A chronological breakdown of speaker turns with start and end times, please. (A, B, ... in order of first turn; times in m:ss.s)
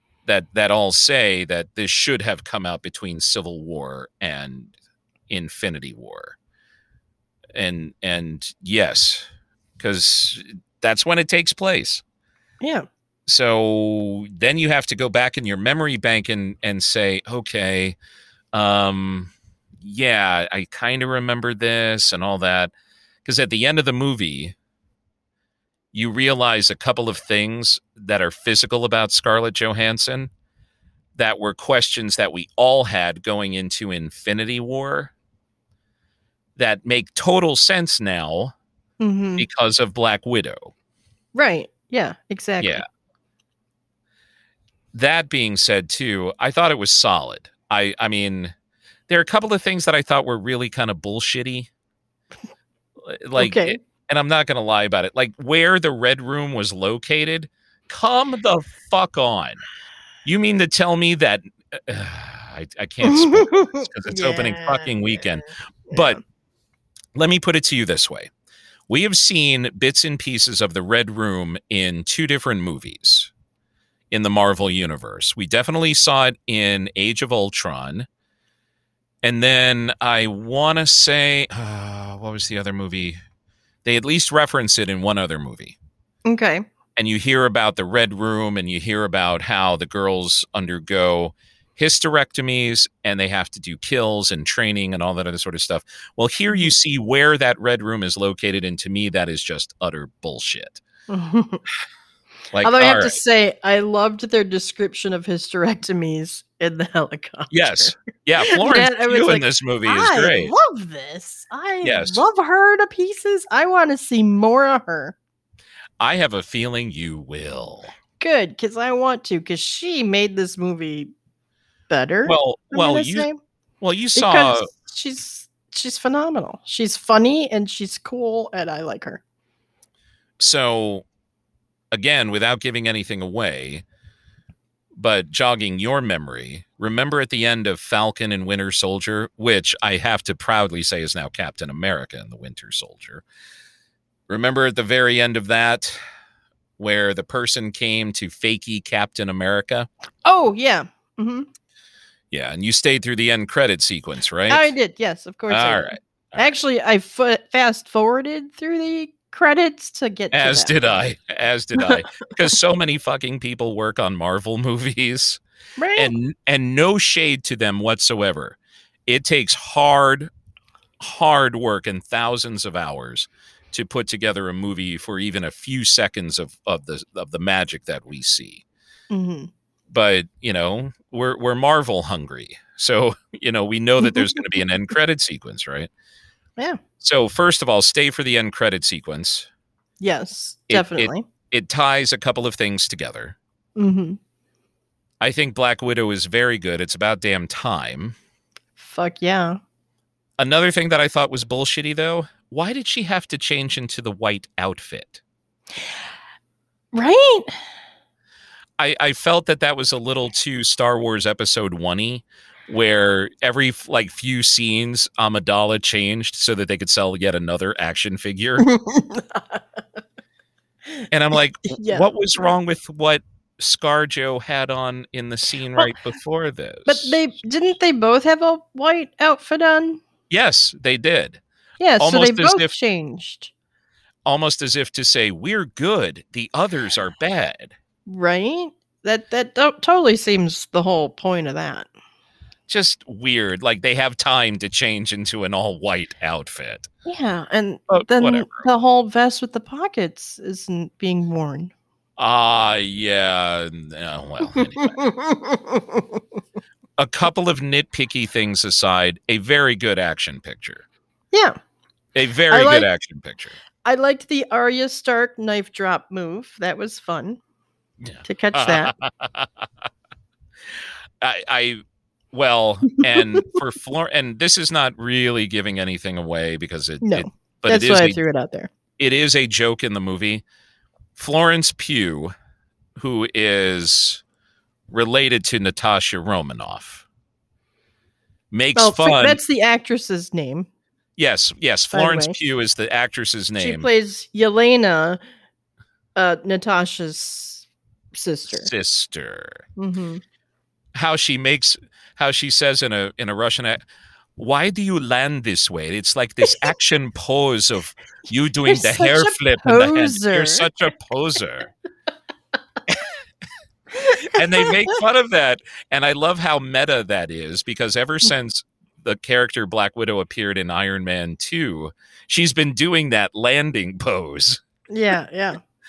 0:00.2-0:04.7 A
0:05.3-0:06.4 A
0:07.5-0:09.3 A
0:09.8-0:12.0 A
0:12.6-0:12.8 B
0:13.3-0:18.0 A
0:18.5-0:22.7 A
0:23.2-0:24.5 A
0:25.9-0:30.3 A
0:31.2-0:35.1 A
0:36.6-0:38.5 A
0:39.0-0:39.4 B
0:39.4-0:40.7 A
0:41.3-0:42.8 B
0:44.9-0:48.5 A
0:49.1-0:51.7 A
0:53.0-0:59.6 A
0:53.4-0:53.8 B
1:00.2-1:06.2 A
1:03.1-1:06.2 B
1:07.1-1:08.3 A
1:08.9-1:13.3 A
1:14.1-1:18.1 A
1:19.2-1:23.2 A
1:23.8-1:25.8 A
1:26.2-1:26.6 B
1:27.0-1:40.8 A
1:41.1-1:41.6 B
1:42.5-1:43.2 A
1:42.6-1:47.9 B
1:47.5-1:50.5 A
1:48.4-1:55.2 B
1:51.8-1:52.2 A
1:56.0-1:57.9 A
1:58.2-2:01.1 B
2:01.9-2:03.4 B
2:02.2-2:03.3 A
2:03.8-2:04.7 A
2:04.2-2:09.2 B
2:10.4-2:11.0 A
2:11.9-2:13.8 A
2:14.9-2:23.2 A
2:24.3-2:26.0 A
2:26.8-2:29.9 A
2:30.2-2:31.5 B
2:32.3-2:34.7 A
2:34.5-2:40.7 B
2:35.5-2:36.5 A
2:40.3-2:45.4 A
2:45.8-2:46.1 B
2:45.9-2:50.3 A
2:51.0-2:58.6 A
2:59.1-2:59.5 B
2:59.9-3:05.9 A
3:04.0-3:04.4 B
3:07.0-3:09.5 A
3:10.0-3:11.2 B
3:10.7-3:13.4 A
3:13.8-3:14.2 B
3:15.2-3:18.2 A
3:18.8-3:19.6 B
3:20.4-3:25.2 A
3:26.9-3:27.6 B
3:28.8-3:38.7 A
3:38.6-3:39.6 B
3:41.1-3:47.2 A
3:41.7-3:42.0 B
3:46.9-3:50.0 B
3:50.3-3:51.4 A
3:51.8-3:53.5 B
3:52.0-3:52.7 A
3:54.2-3:57.8 A
3:58.1-4:01.9 B
4:02.7-4:06.9 A
4:07.0-4:11.7 B
4:07.9-4:08.7 A
4:12.2-4:15.1 A
4:14.6-4:16.2 B
4:17.0-4:20.8 A
4:21.3-4:21.6 B
4:22.1-4:23.6 A
4:22.5-4:22.9 B
4:23.8-4:27.4 B
4:28.0-4:29.6 A
4:28.2-4:28.9 B
4:31.2-4:38.2 A
4:37.0-4:38.7 B
4:39.0-4:40.4 A
4:41.1-4:42.3 A
4:43.0-4:44.2 A
4:44.9-4:47.0 A
4:48.5-4:49.4 A
4:48.8-4:50.7 B
4:51.2-4:53.9 A
4:51.9-4:52.3 B
4:53.6-4:55.2 B
4:56.2-4:58.7 B
4:58.5-4:59.6 A
4:59.8-5:00.2 B
5:00.9-5:03.8 A
5:04.4-5:11.7 A
5:08.6-5:10.7 B
5:14.0-5:24.6 A
5:14.0-5:14.7 B
5:24.9-5:25.6 B